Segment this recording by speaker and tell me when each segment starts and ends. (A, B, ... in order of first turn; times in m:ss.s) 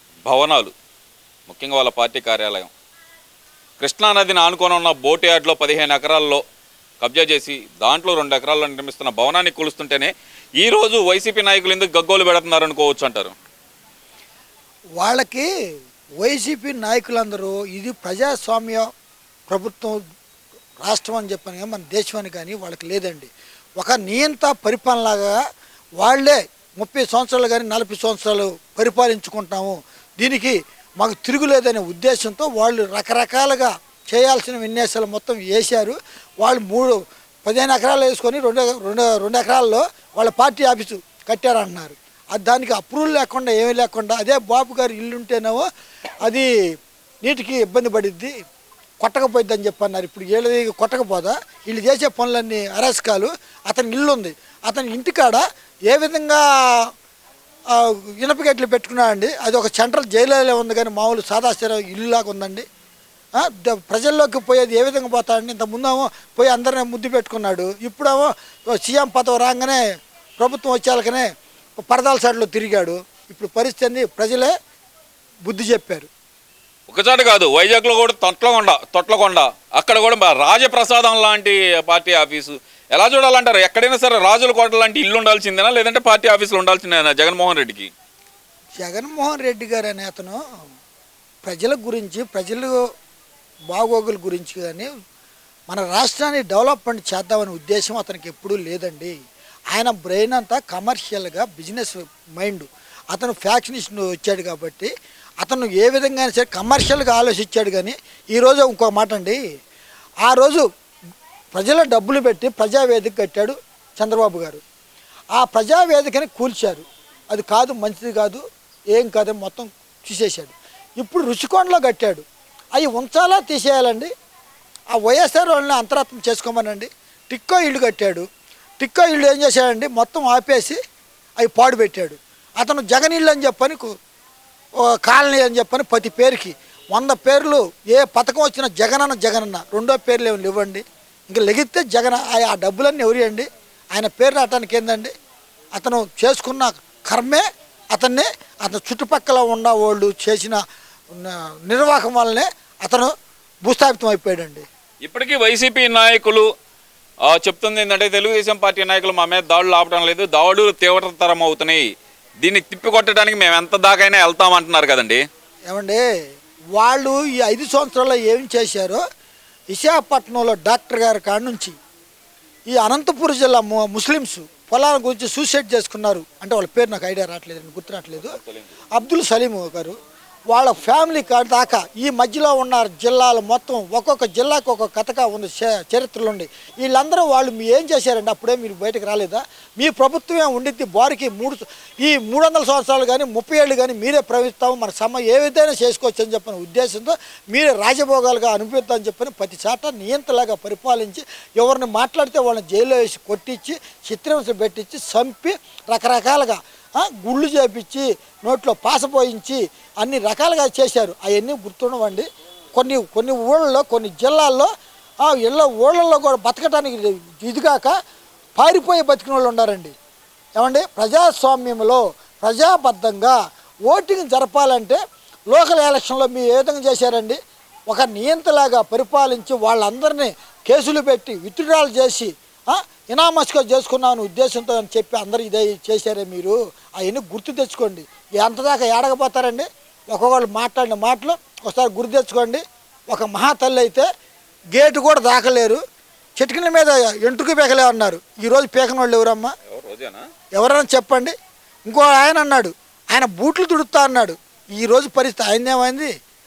0:00.2-0:00.7 A
0:01.5-0:02.7 A
0:03.8-0:06.4 A
0:07.0-0:13.3 A
0:15.0-0:15.5 B
0:16.2-0:18.8 B
0:19.5-0:20.0 B
0:20.8-0:25.4 B
0:26.0-0:45.6 B
0:47.2-0:48.3 B
0:49.0-0:56.9 B
0:57.7-1:02.6 B
1:03.4-1:09.8 B
1:10.4-1:14.5 B
1:15.4-1:16.1 B
1:16.9-1:27.9 A
1:28.8-1:30.4 B
1:31.4-1:32.7 B
1:33.7-1:34.9 B
1:35.7-1:39.1 B
1:39.7-1:49.4 B
1:50.2-1:50.6 B
1:51.5-1:54.6 B
1:55.3-2:02.2 B
2:02.8-2:04.1 B
2:04.9-2:08.2 B
2:08.8-2:10.8 B
2:11.4-2:13.9 B
2:14.8-2:25.1 B
2:25.8-2:30.6 B
2:31.1-2:33.1 B
2:33.6-2:34.6 B
2:35.0-2:36.5 A
2:37.2-2:41.8 A
2:42.4-2:45.2 A
2:45.7-2:46.0 B
2:46.8-2:49.0 B
2:49.7-2:51.7 B
2:52.7-2:58.4 B
2:58.2-2:58.7 A
2:58.9-2:59.9 B
3:00.5-3:34.7 B
3:35.2-3:37.9 B
3:38.6-3:39.9 B
3:40.6-3:43.3 B
3:43.9-4:04.0 B
4:04.7-4:05.8 B
4:06.4-4:09.5 B
4:09.7-4:10.2 A
4:10.6-4:11.3 B
4:11.8-4:16.1 B